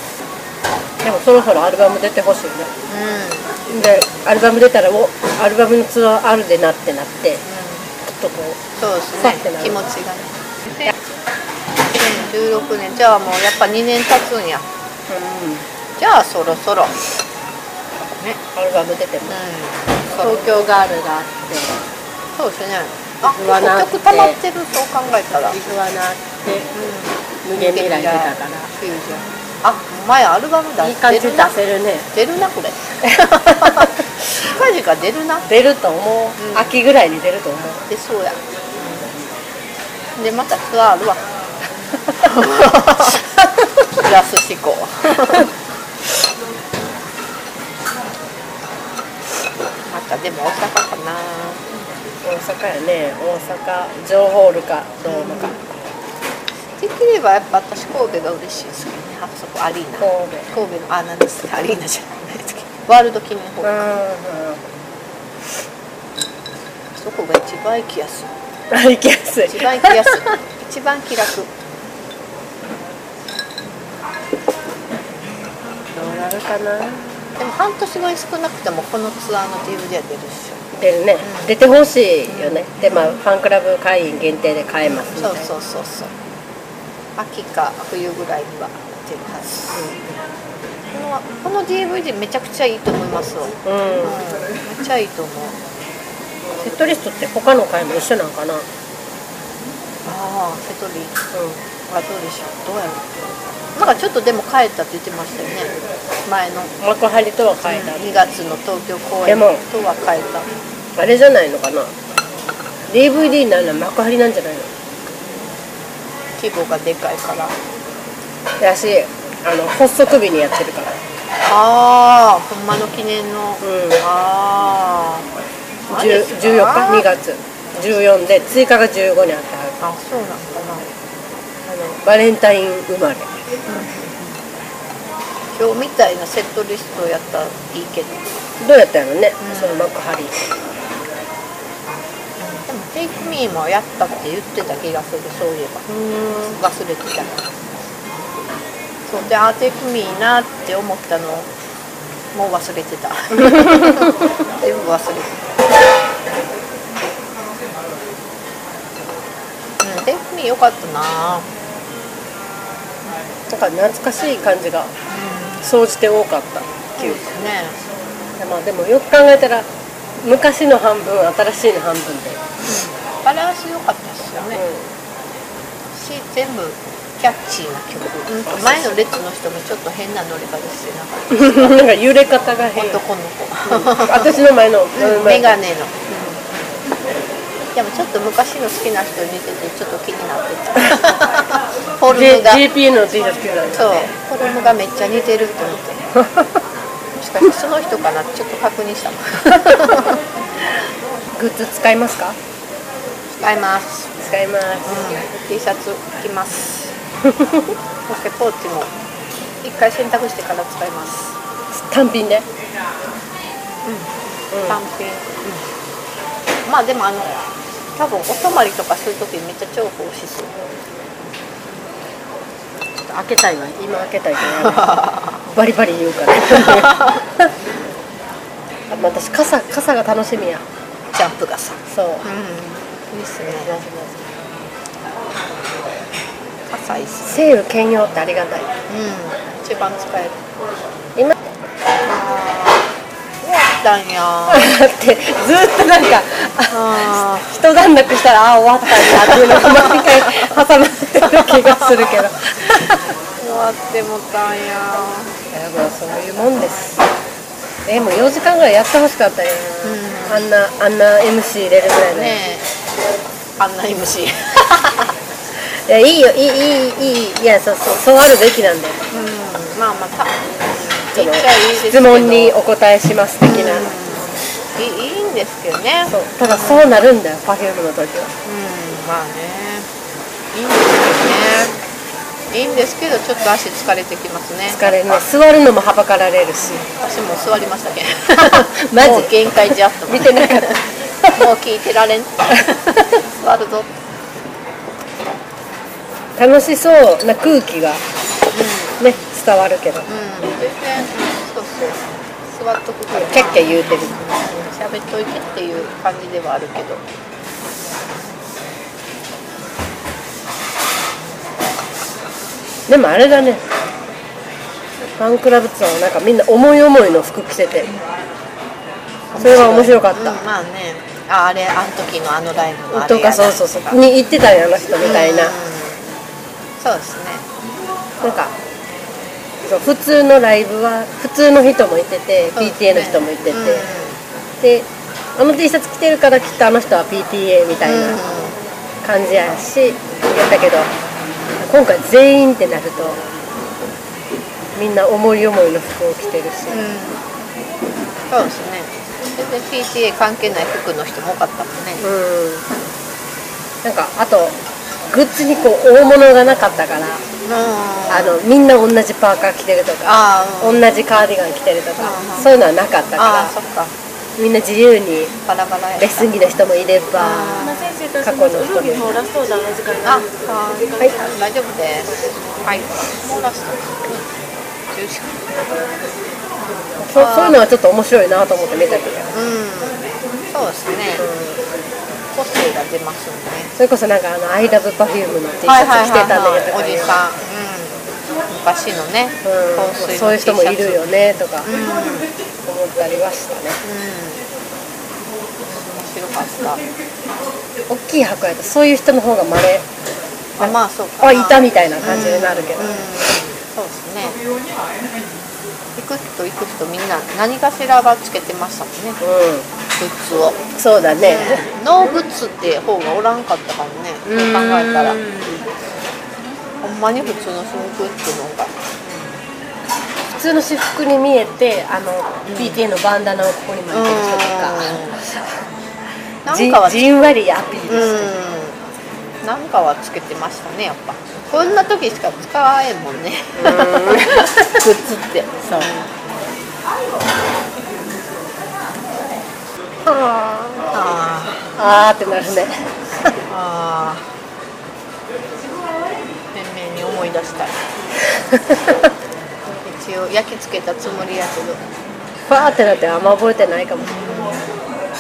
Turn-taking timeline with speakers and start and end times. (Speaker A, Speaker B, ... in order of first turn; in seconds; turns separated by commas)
Speaker A: 1.0-2.7, Speaker B: 2.9-4.0, Speaker A: 3.7-7.4, Speaker B: 7.5-7.9, Speaker A: 8.0-8.6, Speaker B: 8.8-10.9, Speaker A: 9.2-9.8, Speaker B: 11.9-14.7, Speaker A: 15.1-15.7, Speaker B: 16.0-17.0, Speaker B: 18.0-18.4, Speaker A: 18.6-19.4, Speaker B: 19.3-20.4, Speaker A: 20.1-21.8, Speaker B: 22.4-25.6, Speaker A: 23.2-24.4, Speaker A: 25.5-26.7, Speaker B: 26.7-31.6, Speaker A: 27.4-28.7, Speaker A: 30.8-32.1, Speaker B: 32.1-35.5, Speaker A: 33.5-33.9, Speaker A: 35.5-37.8, Speaker B: 36.4-36.7, Speaker B: 37.9-39.1, Speaker B: 40.2-41.3, Speaker B: 42.2-43.3, Speaker B: 43.9-45.5, Speaker B: 49.9-51.6, Speaker A: 52.2-55.6, Speaker B: 55.1-55.5, Speaker B: 56.8-63.9, Speaker A: 60.0-60.5, Speaker A: 63.6-64.6, Speaker B: 67.0-68.3, Speaker A: 68.7-70.2, Speaker B: 69.5-71.5, Speaker A: 75.9-77.2, Speaker B: 77.4-80.6, Speaker A: 80.7-85.5, Speaker B: 81.2-81.5, Speaker B: 82.3-83.1, Speaker B: 84.8-86.1, Speaker B: 87.2-90.0, Speaker B: 90.9-95.6, Speaker A: 93.6-94.2, Speaker A: 96.6-98.7, Speaker B: 100.0-101.2, Speaker A: 101.3-101.6, Speaker B: 101.9-106.7, Speaker A: 106.8-108.2, Speaker B: 107.7-110.5, Speaker A: 109.3-109.6, Speaker A: 111.0-111.9, Speaker A: 112.9-114.7, Speaker B: 116.4-117.5, Speaker A: 118.6-120.9, Speaker B: 121.4-125.3, Speaker A: 123.6-124.0, Speaker B: 125.9-127.1, Speaker A: 125.9-129.8, Speaker B: 129.8-130.9, Speaker A: 131.7-133.3, Speaker B: 133.7-134.2, Speaker B: 135.6-138.3, Speaker A: 138.6-140.4, Speaker B: 139.4-139.9, Speaker B: 142.4-147.7, Speaker A: 145.9-146.6, Speaker B: 149.1-151.5, Speaker B: 152.3-155.5, Speaker A: 153.5-154.1, Speaker B: 159.8-161.5, Speaker A: 163.5-164.9, Speaker B: 165.1-165.6, Speaker A: 165.6-167.3, Speaker B: 167.0-167.8, Speaker A: 168.4-169.7, Speaker A: 170.2-172.4, Speaker B: 172.6-174.6, Speaker A: 174.5-174.9, Speaker B: 175.9-181.8, Speaker A: 181.3-183.0, Speaker B: 182.8-184.3, Speaker A: 183.7-185.5, Speaker B: 184.9-186.5, Speaker B: 187.8-192.7, Speaker A: 192.1-194.1, Speaker B: 193.8-196.0, Speaker A: 196.2-196.6, Speaker B: 197.2-200.2, Speaker A: 201.3-202.4, Speaker B: 203.3-204.2, Speaker A: 204.2-205.1, Speaker B: 204.8-206.9, Speaker A: 207.3-207.7, Speaker B: 208.1-208.9, Speaker B: 209.6-211.3, Speaker A: 211.8-212.5, Speaker B: 213.8-215.6, Speaker A: 214.5-214.8, Speaker B: 216.7-220.6, Speaker A: 223.1-227.5, Speaker B: 224.6-225.4, Speaker B: 226.5-227.2, Speaker A: 228.9-230.6, Speaker B: 231.1-233.7, Speaker A: 231.9-232.2, Speaker A: 233.6-234.2, Speaker B: 236.7-237.3, Speaker A: 237.3-238.7, Speaker B: 238.9-240.4, Speaker B: 242.0-242.9, Speaker B: 243.4-244.7, Speaker A: 244.5-253.1, Speaker B: 246.7-247.6, Speaker B: 248.9-250.6, Speaker B: 251.2-252.1, Speaker B: 253.4-255.3, Speaker A: 255.5-257.1, Speaker A: 257.9-262.4, Speaker B: 259.8-260.5, Speaker B: 262.0-262.7, Speaker B: 263.6-265.1, Speaker A: 265.7-269.0, Speaker B: 269.1-272.6, Speaker A: 271.2-273.9, Speaker B: 273.4-276.9, Speaker A: 276.1-278.3, Speaker B: 278.4-279.9, Speaker B: 280.5-281.8, Speaker B: 282.5-285.2, Speaker A: 284.7-286.9, Speaker B: 286.9-293.9, Speaker A: 288.4-291.3, Speaker A: 296.4-298.0, Speaker B: 298.5-299.0, Speaker A: 299.0-300.1, Speaker B: 300.1-307.0, Speaker A: 303.1-304.4, Speaker A: 312.9-313.6, Speaker A: 315.2-317.9, Speaker B: 319.3-324.0, Speaker A: 319.4-320.4, Speaker A: 322.9-325.6, Speaker B: 325.0-326.1, Speaker B: 326.8-327.4, Speaker A: 328.2-328.5, Speaker A: 329.6-333.9, Speaker B: 332.5-334.2, Speaker A: 334.6-338.2, Speaker B: 337.8-338.6, Speaker A: 339.0-340.9, Speaker A: 341.6-343.2, Speaker A: 344.8-346.9, Speaker B: 346.7-347.2, Speaker B: 348.3-352.1, Speaker A: 352.0-352.7, Speaker A: 353.8-354.6, Speaker A: 355.1-357.2, Speaker B: 357.4-358.4, Speaker A: 358.1-363.5, Speaker B: 360.1-360.9, Speaker B: 362.0-362.5, Speaker B: 363.2-363.9, Speaker A: 364.4-365.4, Speaker B: 365.5-366.3, Speaker A: 366.0-369.2, Speaker B: 367.2-368.0, Speaker C: 367.6-370.4, Speaker B: 370.1-374.3, Speaker B: 374.9-375.6, Speaker A: 377.0-379.3, Speaker B: 377.1-377.6, Speaker B: 379.3-381.3, Speaker A: 381.2-381.6, Speaker B: 382.3-383.7, Speaker A: 383.8-387.2, Speaker B: 385.6-391.1, Speaker A: 389.4-391.7, Speaker B: 391.6-392.3, Speaker A: 392.6-393.8, Speaker B: 393.8-394.4, Speaker B: 395.7-396.8, Speaker A: 397.9-399.9, Speaker B: 400.6-404.4, Speaker A: 400.6-403.0, Speaker B: 406.0-409.2, Speaker A: 409.2-409.7, Speaker B: 409.9-410.6, Speaker A: 410.8-411.7, Speaker B: 411.2-415.2, Speaker A: 414.3-415.6, Speaker B: 416.8-418.7, Speaker A: 420.3-425.6, Speaker B: 422.5-422.8, Speaker B: 423.9-425.2, Speaker B: 426.4-427.0, Speaker A: 426.5-428.4, Speaker B: 427.9-428.8, Speaker B: 429.4-436.1, Speaker A: 433.6-434.9, Speaker A: 440.1-440.9, Speaker B: 440.9-441.7, Speaker A: 441.8-443.3, Speaker B: 443.5-444.2, Speaker B: 446.5-447.8, Speaker A: 448.3-449.1, Speaker B: 449.7-451.8, Speaker A: 452.5-454.1, Speaker B: 454.0-454.8